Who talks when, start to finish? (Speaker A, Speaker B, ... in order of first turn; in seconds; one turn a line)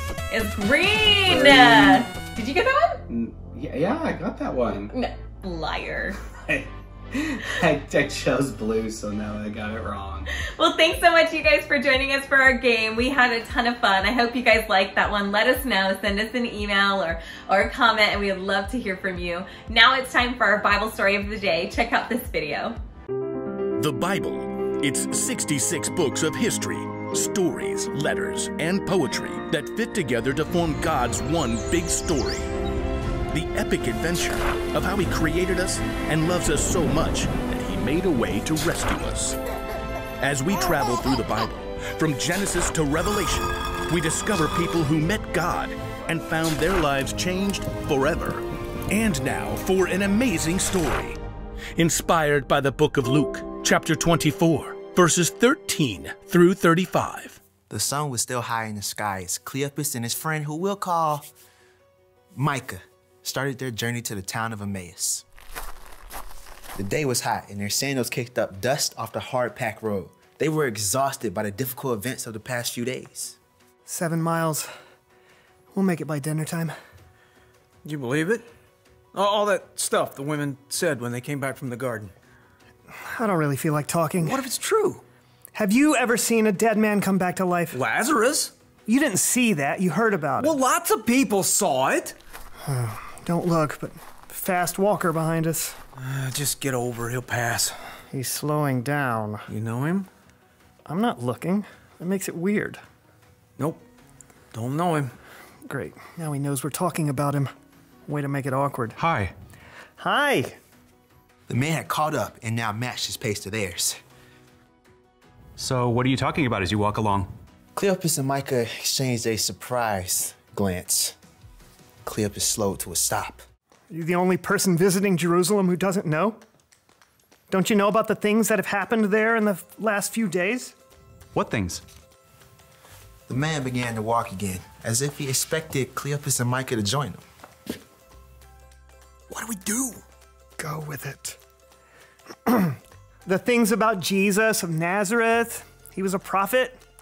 Speaker A: 0.3-3.0
Speaker B: 1.3-2.1
Speaker B: 3.1-4.9
Speaker A: 4.9-6.2
Speaker B: 6.5-10.3
Speaker A: 10.4-22.8
Speaker C: 23.8-32.5
Speaker C: 33.3-39.4
Speaker C: 40.2-51.2
Speaker C: 51.8-57.4
Speaker D: 57.7-61.3
Speaker D: 62.4-65.2
Speaker D: 66.8-73.4
Speaker E: 73.8-74.7
Speaker E: 75.7-76.8
Speaker F: 77.8-78.4
Speaker F: 79.1-82.1
Speaker E: 83.1-84.4
Speaker F: 84.2-85.0
Speaker E: 85.5-87.8
Speaker F: 87.7-88.5
Speaker E: 88.9-90.6
Speaker F: 90.4-92.1
Speaker E: 92.7-95.8
Speaker F: 96.0-97.7
Speaker E: 98.1-99.4
Speaker F: 99.5-100.1
Speaker E: 100.8-102.8
Speaker F: 104.5-105.1
Speaker E: 105.7-107.5
Speaker E: 108.1-109.0
Speaker G: 109.0-109.3
Speaker E: 110.0-110.6
Speaker D: 111.5-114.0
Speaker G: 115.6-117.3
Speaker D: 117.8-121.2
Speaker D: 122.0-123.4
Speaker E: 123.9-126.4
Speaker E: 127.5-130.7
Speaker G: 131.3-131.8
Speaker D: 133.3-137.2
Speaker F: 139.6-139.9
Speaker E: 140.6-141.4
Speaker E: 142.5-142.8
Speaker E: 143.2-146.8